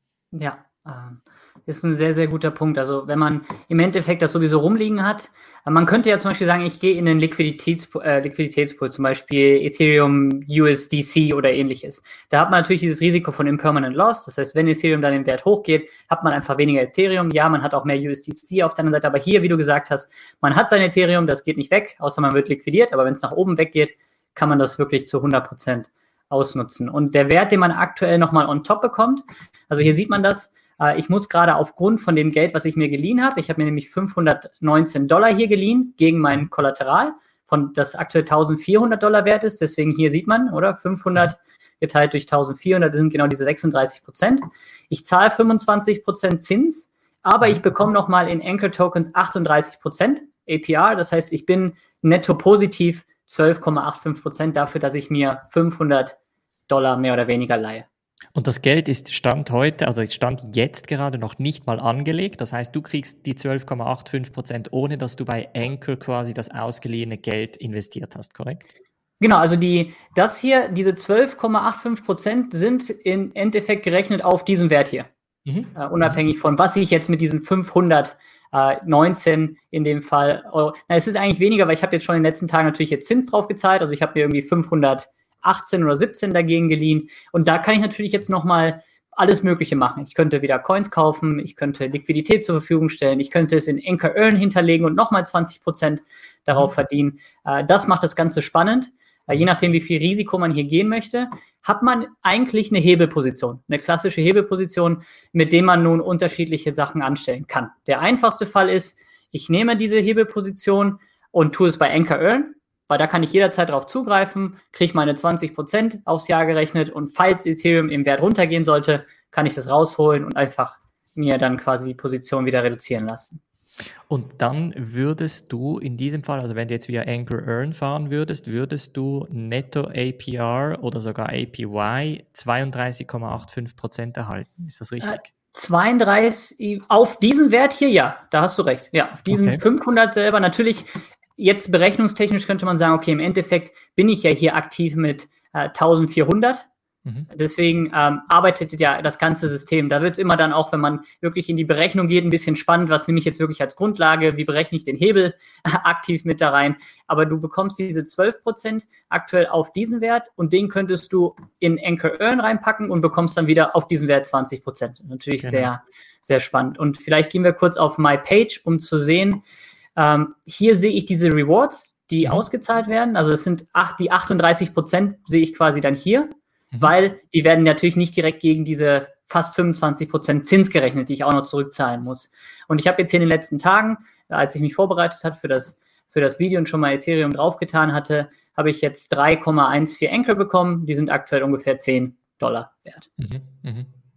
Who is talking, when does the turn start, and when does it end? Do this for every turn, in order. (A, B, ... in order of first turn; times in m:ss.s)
0:00.3-0:56.2 A
0:56.7-0:57.8 A
0:58.3-1:08.7 B
1:09.2-1:15.1 A
1:15.4-1:16.2 B
1:15.7-2:03.4 A
2:04.1-2:15.3 B
2:15.0-2:26.7 A
2:19.3-2:19.6 B
2:27.3-2:49.4 A
2:45.4-2:45.7 B
2:50.0-3:13.1 A
3:13.2-3:13.9 B